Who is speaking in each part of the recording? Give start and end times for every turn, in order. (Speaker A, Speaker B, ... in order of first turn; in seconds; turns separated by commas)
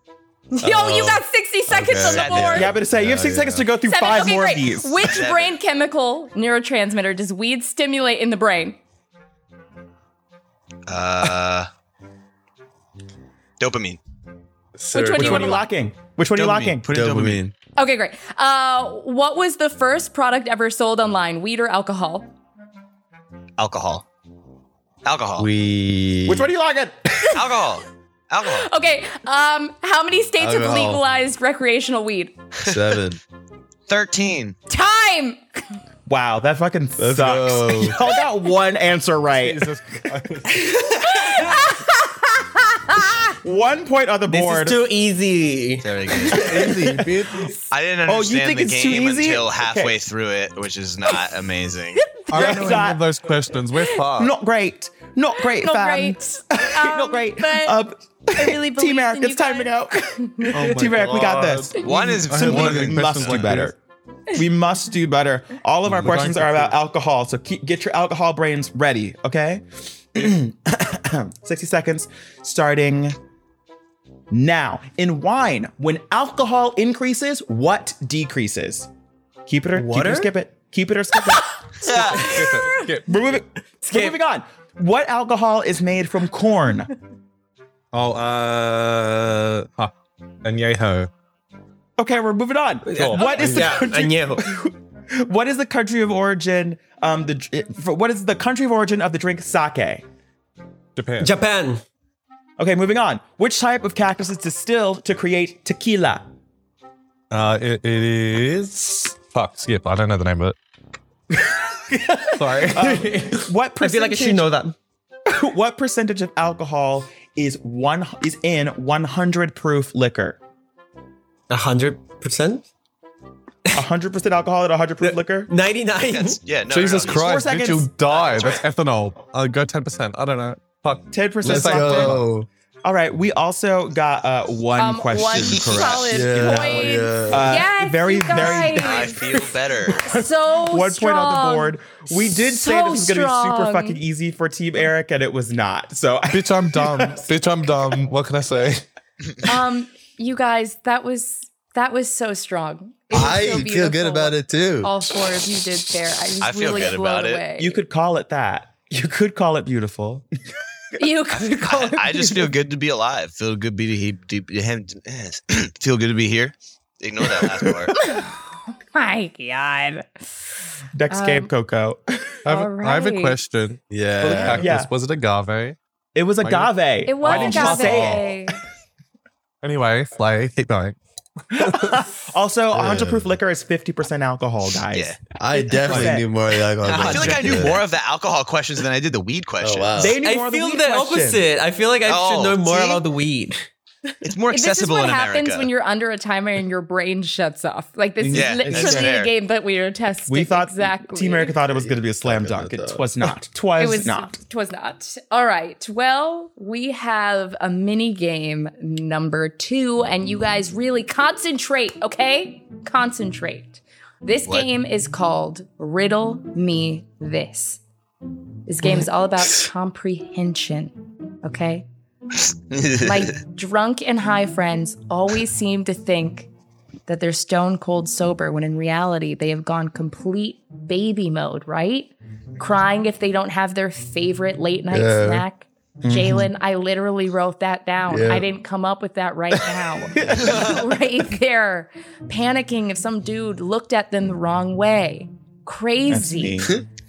Speaker A: 0.5-2.7, Speaker B: 0.6-1.1, Speaker B: 1.7-3.7, Speaker C: 2.0-2.8, Speaker D: 2.5-5.1, Speaker A: 3.9-8.8, Speaker C: 5.0-5.5, Speaker C: 10.9-11.7, Speaker C: 13.6-14.0, Speaker B: 14.8-15.6, Speaker A: 14.9-15.6, Speaker D: 15.1-16.9, Speaker C: 16.4-17.4, Speaker B: 16.9-17.5, Speaker A: 17.8-22.3, Speaker C: 23.6-24.1, Speaker C: 25.1-25.5, Speaker B: 25.4-26.5, Speaker D: 26.3-27.2, Speaker C: 27.3-28.7, Speaker A: 28.4-32.4, Speaker B: 30.4-31.0, Speaker B: 32.7-33.2, Speaker C: 33.9-34.6, Speaker A: 34.7-35.4, Speaker D: 36.1-39.7, Speaker B: 37.0-38.0, Speaker E: 39.3-40.7, Speaker A: 40.7-43.2, Speaker D: 43.4-44.8, Speaker F: 44.3-46.7, Speaker C: 45.8-46.5, Speaker B: 46.4-47.5, Speaker D: 46.6-47.1, Speaker C: 47.7-52.2, Speaker D: 48.1-50.0, Speaker A: 52.1-52.8, Speaker E: 52.3-54.3, Speaker D: 52.3-53.0, Speaker D: 54.1-63.8, Speaker A: 55.5-57.8, Speaker A: 58.3-60.6, Speaker E: 60.5-63.7, Speaker B: 60.6-61.8, Speaker C: 61.8-63.5, Speaker D: 64.3-73.2, Speaker E: 65.9-66.8, Speaker D: 74.3-78.9, Speaker D: 79.5-82.5, Speaker F: 79.7-80.3, Speaker E: 81.9-83.2, Speaker A: 82.5-82.9, Speaker D: 83.0-86.9, Speaker F: 83.9-84.1, Speaker E: 87.9-89.9, Speaker E: 90.4-91.1, Speaker D: 92.0-100.0, Speaker F: 92.9-94.5, Speaker E: 93.0-93.8, Speaker E: 101.0-101.3, Speaker F: 101.2-101.8, Speaker D: 102.6-106.3, Speaker E: 107.3-110.6, Speaker E: 112.3-112.9, Speaker F: 112.5-114.8, Speaker D: 112.6-114.5, Speaker D: 115.3-120.4, Speaker F: 121.5-122.7, Speaker D: 123.7-125.5, Speaker F: 125.0-126.4, Speaker C: 126.1-127.3, Speaker E: 126.7-132.3, Speaker D: 127.1-127.9, Speaker C: 128.3-128.5, Speaker D: 131.1-132.2, Speaker B: 131.4-132.5, Speaker D: 132.8-139.4, Speaker A: 134.8-139.2, Speaker B: 135.3-137.5, Speaker C: 138.6-140.1, Speaker A: 140.0-144.0, Speaker D: 140.1-147.3, Speaker E: 146.3-148.8, Speaker A: 149.4-157.8, Speaker B: 153.1-154.9, Speaker C: 156.4-157.4, Speaker D: 157.6-160.2, Speaker A: 161.0-162.5, Speaker C: 161.5-167.9, Speaker A: 168.0-170.3, Speaker D: 170.9-172.4, Speaker A: 171.1-171.5, Speaker A: 172.5-173.4, Speaker E: 172.5-175.8, Speaker B: 173.9-174.7, Speaker D: 174.4-174.9, Speaker D: 176.2-178.3, Speaker E: 176.4-178.3, Speaker A: 177.1-178.6, Speaker E: 179.6-181.0, Speaker E: 181.5-181.8, Speaker D: 181.5-186.3, Speaker B: 182.8-183.3, Speaker C: 184.9-185.2, Speaker B: 185.3-187.8, Speaker F: 186.8-187.8, Speaker C: 186.8-190.1, Speaker B: 189.6-190.2, Speaker D: 190.0-191.4, Speaker F: 190.2-193.6, Speaker C: 192.1-193.1, Speaker C: 194.2-195.7, Speaker A: 194.5-201.6, Speaker D: 198.2-199.1, Speaker C: 198.3-199.3, Speaker D: 200.3-204.3, Speaker B: 201.7-203.1, Speaker A: 203.8-217.8, Speaker A: 218.7-221.8, Speaker C: 222.7-223.3, Speaker A: 223.0-226.5, Speaker A: 227.1-246.7, Speaker B: 234.9-235.4, Speaker D: 236.0-236.5, Speaker B: 238.1-238.5, Speaker D: 246.1-246.8